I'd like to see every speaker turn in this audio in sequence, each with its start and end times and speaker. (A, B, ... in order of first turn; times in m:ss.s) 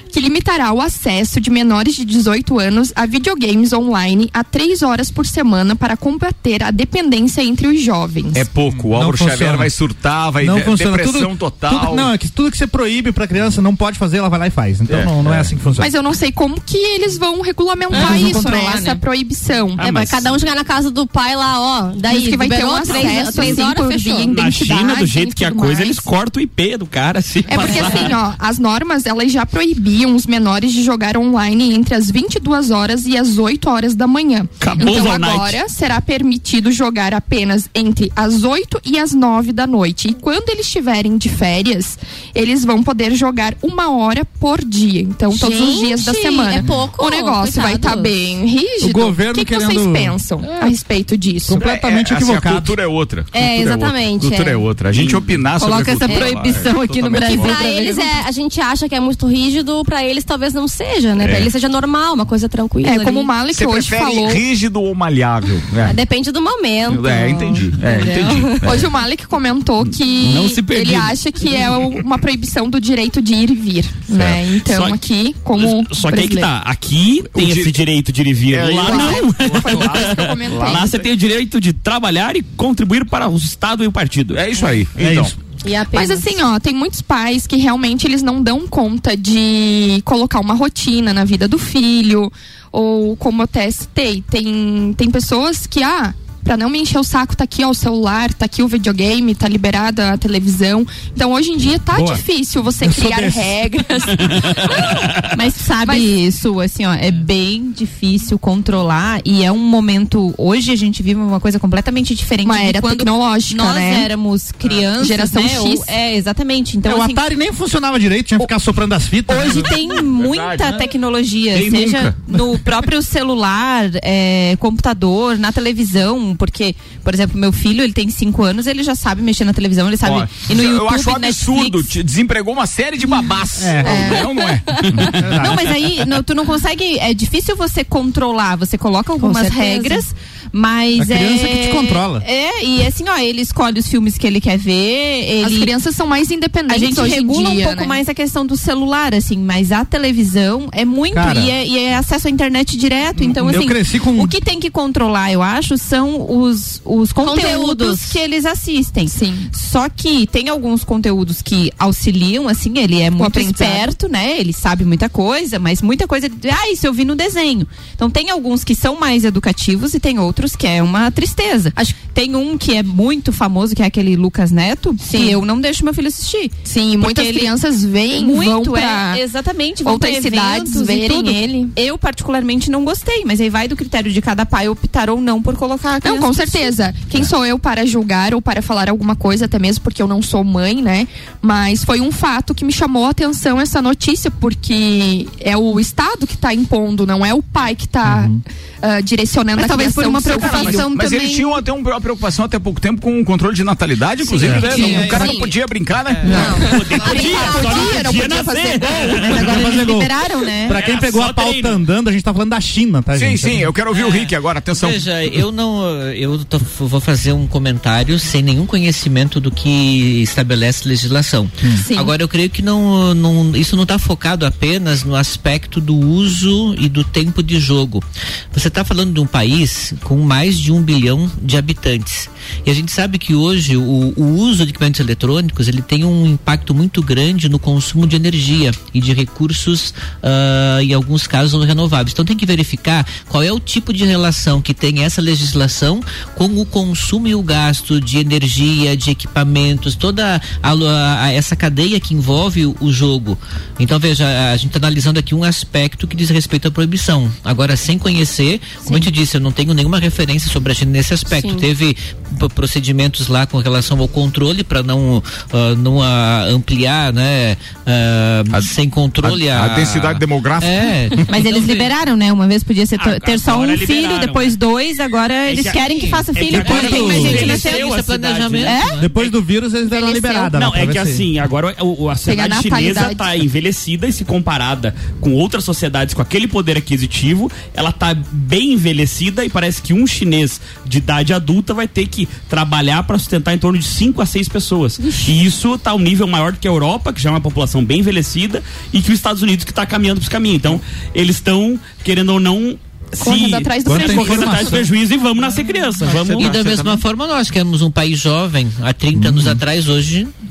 0:00.1-0:08.4 A
0:08.3-0:12.1 B
0:08.7-0:09.7 C
0:10.4-0:15.9 C
0:14.9-0:15.5 B
0:15.8-0:19.8 A
0:17.9-0:19.0 D
0:18.0-0:18.3 C
0:19.8-0:20.2 E
0:19.8-0:24.3 F
0:22.0-0:26.1 A
0:22.9-0:23.6 D
0:24.3-0:28.2 E
0:27.5-0:51.7 A
0:34.6-0:35.6 E
0:45.3-0:48.2 F
0:48.8-0:50.7 C
0:51.5-0:52.8 C
0:51.6-0:57.7 B
0:53.3-0:54.7 F
0:54.9-0:55.3 E
0:55.6-0:58.1 D
0:56.0-0:56.4 F
0:57.1-1:03.4 F
1:01.2-1:01.5 B
1:02.8-1:04.4 A
1:03.5-1:06.0 B
1:05.8-1:08.6 F
1:06.9-1:08.9 B
1:08.6-1:16.5 A
1:10.2-1:12.0 E
1:14.1-1:14.4 B
1:14.6-1:15.0 E
1:15.6-1:24.4 E
1:17.4-1:17.8 B
1:18.5-1:20.9 B
1:18.8-1:21.0 A
1:24.3-1:25.3 B
1:25.0-1:25.4 C
1:25.6-1:26.3 F
1:25.9-1:45.0 A
1:41.9-1:42.2 C
1:42.8-1:43.8 C
1:45.3-1:57.2 D
1:45.8-1:46.2 A
1:52.4-1:54.1 A
1:55.0-1:55.9 A
1:56.8-1:59.8 C
1:59.3-2:11.9 D
2:00.0-2:00.9 B
2:01.5-2:02.2 B
2:10.0-2:15.3 B
2:13.6-2:14.2 C
2:13.8-2:14.2 D
2:15.0-2:15.7 C
2:15.3-2:25.7 D
2:19.2-2:20.0 F
2:21.0-2:22.2 C
2:25.4-2:28.0 A
2:26.7-2:57.5 D
2:31.1-2:31.5 C
2:33.2-2:34.4 C
2:37.2-2:38.2 F
2:39.1-2:39.5 A
2:43.2-2:43.9 A
2:55.0-2:55.4 A
2:56.6-2:59.2 A
2:58.1-3:06.8 D
2:59.8-3:01.7 A
3:06.0-3:20.9 A
3:18.0-3:18.4 C
3:19.6-3:21.6 D
3:20.3-3:26.6 B
3:24.2-3:25.5 F
3:24.4-3:25.5 G
3:24.4-3:24.7 C
3:26.0-3:26.6 G
3:26.2-3:27.7 F
3:26.3-3:26.5 C
3:26.3-3:29.3 A
3:26.6-3:29.5 E
3:29.2-3:30.8 D
3:29.3-3:33.7 C
3:30.7-3:31.8 E
3:33.2-3:35.4 B
3:33.9-4:31.9 G
4:18.8-4:19.1 F
4:21.3-4:21.7 F
4:28.5-4:31.1 B
4:31.3-4:37.9 D
4:33.0-4:34.6 E
4:35.5-4:35.8 E
4:35.6-4:39.2 G
4:36.3-4:38.8 E
4:36.6-4:37.5 C
4:38.6-4:39.0 D
4:39.0-4:41.3 C
4:40.1-4:40.4 A
4:40.6-5:06.5 E
4:42.2-4:43.4 A
5:03.2-5:04.9 A
5:03.8-5:04.9 C
5:06.0-5:07.0 B
5:06.1-5:10.3 G
5:09.2-5:09.6 C